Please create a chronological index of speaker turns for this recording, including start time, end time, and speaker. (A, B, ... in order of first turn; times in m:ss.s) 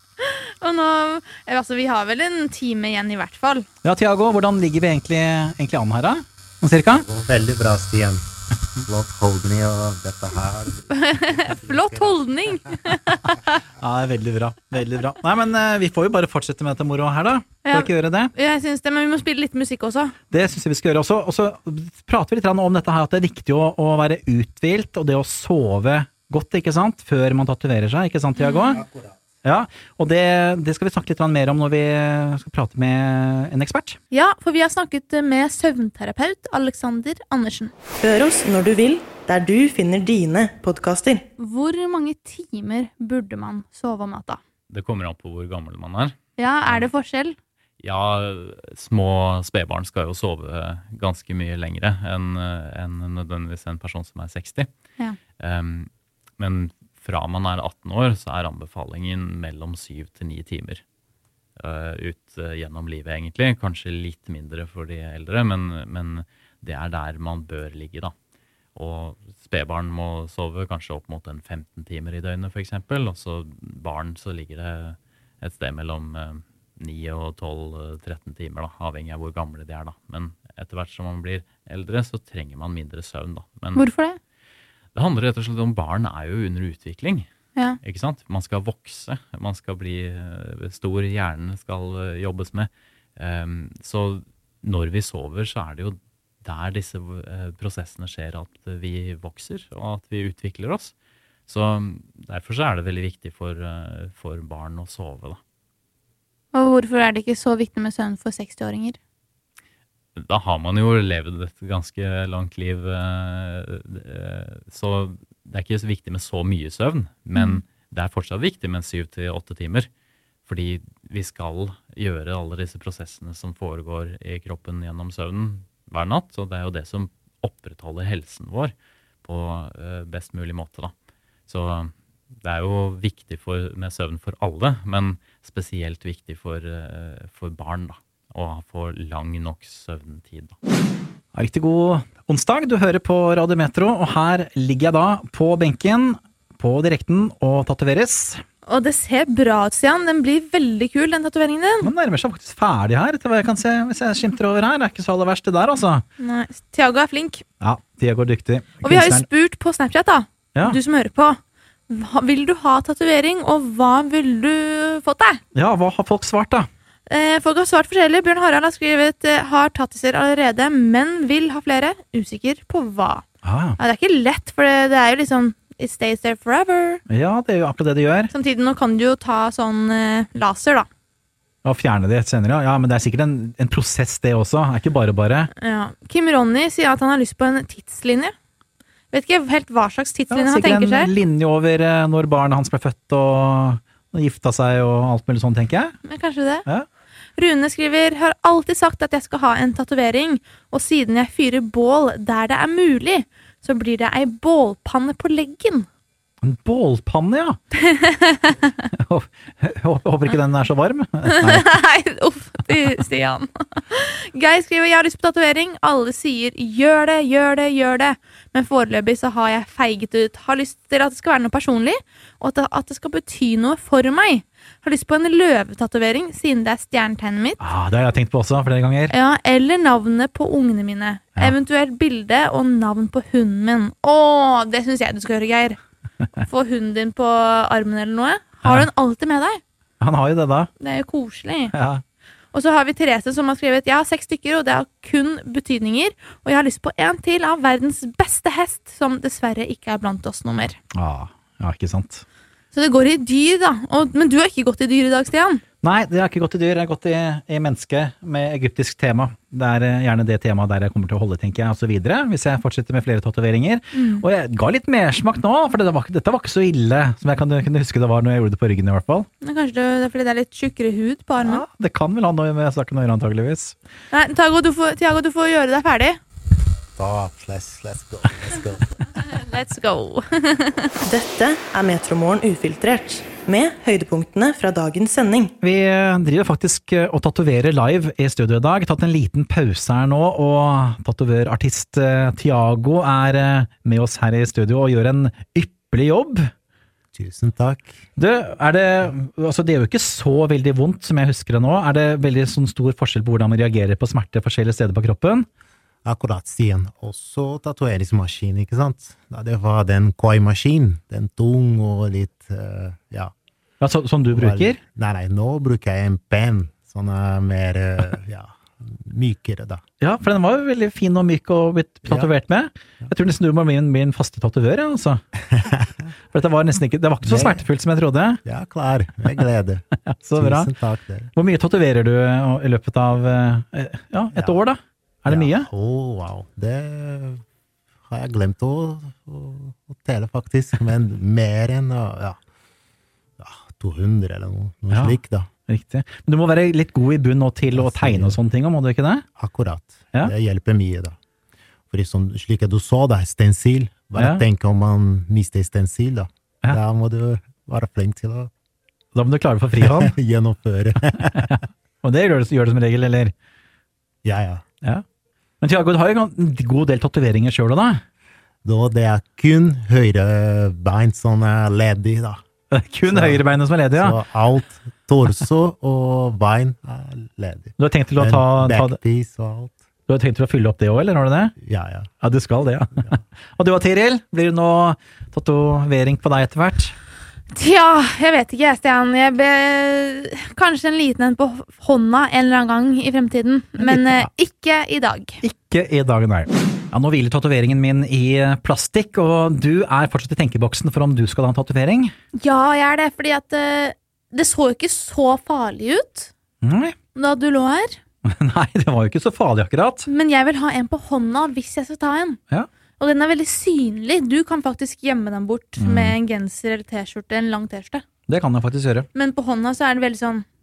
0:00.2-0:03.7 A
0:03.8-0:07.0 B
0:07.0-0:08.2 C
0:08.8-0:12.2 C
0:10.9-0:13.5 A
0:13.8-0:18.3 B
0:17.6-0:20.1 A
0:20.3-0:28.8 B
0:28.4-0:28.8 A
0:29.4-0:34.0 B
0:34.1-0:37.7 A
0:38.0-0:41.3 D
0:41.4-0:44.4 A
0:44.7-0:46.9 E
0:46.4-0:47.4 A
0:47.8-0:54.7 E
0:55.4-1:00.8 E
1:01.6-1:08.1 E
1:08.7-1:23.8 E
1:23.8-1:24.2 A
1:24.9-1:27.3 E
1:27.8-1:40.9 E
1:41.5-1:45.4 E
1:46.5-1:49.0 A
1:50.2-1:59.9 E
1:57.3-1:57.6 A
2:00.4-2:10.9 E
2:11.5-2:20.6 E
2:21.3-2:28.4 B
2:28.7-2:31.9 A
2:31.8-2:36.0 B
2:36.2-2:37.4 A
2:37.6-2:39.2 B
2:38.8-2:45.4 A
2:45.5-2:46.7 B
2:47.1-2:53.2 A
2:53.4-2:53.8 B
2:53.8-2:57.0 A
2:57.1-2:58.3 B
2:58.3-3:00.9 A
3:01.6-3:05.5 B
3:05.6-3:08.3 A
3:09.1-3:11.1 A
3:10.3-3:15.9 B
3:16.1-3:16.6 A
3:17.4-3:25.9 A
3:26.4-3:27.6 B
3:27.7-3:28.7 A
3:28.9-3:31.7 B
3:31.2-3:47.6 A
3:47.6-3:49.1 B
3:49.1-3:55.8 A
3:56.4-3:59.6 A
3:58.6-3:58.9 B
4:00.0-4:00.7 B
4:00.8-4:01.7 A
4:01.7-4:02.0 B
4:02.5-4:10.8 A
4:10.9-4:12.2 B
4:12.7-4:15.6 A
4:15.8-4:29.3 B
4:23.9-4:24.2 A
4:29.4-4:31.6 A
4:31.4-4:33.7 B
4:34.1-4:36.2 A
4:37.0-4:38.9 C
4:39.2-4:41.0 A
4:41.0-4:45.5 D
4:45.6-4:56.5 B
4:57.1-4:58.0 C
4:58.2-5:05.5 B
5:06.0-5:13.3 C
5:13.8-5:14.8 B
5:14.3-5:19.8 C
5:20.0-5:25.2 B
5:25.6-5:26.0 C
5:26.3-5:28.4 B
5:27.2-5:27.6 C
5:28.4-5:31.3 C
5:30.0-5:30.7 B
5:31.4-5:35.7 B
5:34.3-5:34.6 C
5:35.3-5:37.4 C
5:38.1-5:42.4 C
5:43.4-5:45.5 C
5:44.9-5:49.2 B
5:47.7-5:48.4 C
5:49.4-5:51.2 C
5:51.9-5:58.5 C
5:54.2-5:54.4 B
5:59.1-6:00.1 B
5:59.8-6:01.5 C
6:01.3-6:03.3 B
6:04.2-6:04.6 C
6:05.6-6:08.0 B
6:08.6-6:12.4 C
6:12.7-6:14.2 B
6:13.1-6:19.8 C
6:17.8-6:19.0 B
6:20.1-6:21.6 B
6:21.6-6:22.1 C
6:22.2-6:26.9 B
6:27.5-6:35.4 A
6:33.8-6:34.3 B
6:35.4-6:42.1 B
6:42.4-6:46.3 A
6:46.6-6:47.0 B
6:47.1-6:48.0 A
6:48.2-6:50.0 B
6:50.1-6:52.4 A
6:53.0-6:58.0 A
6:55.8-6:56.2 B
6:58.3-6:59.1 B
6:59.1-7:00.4 A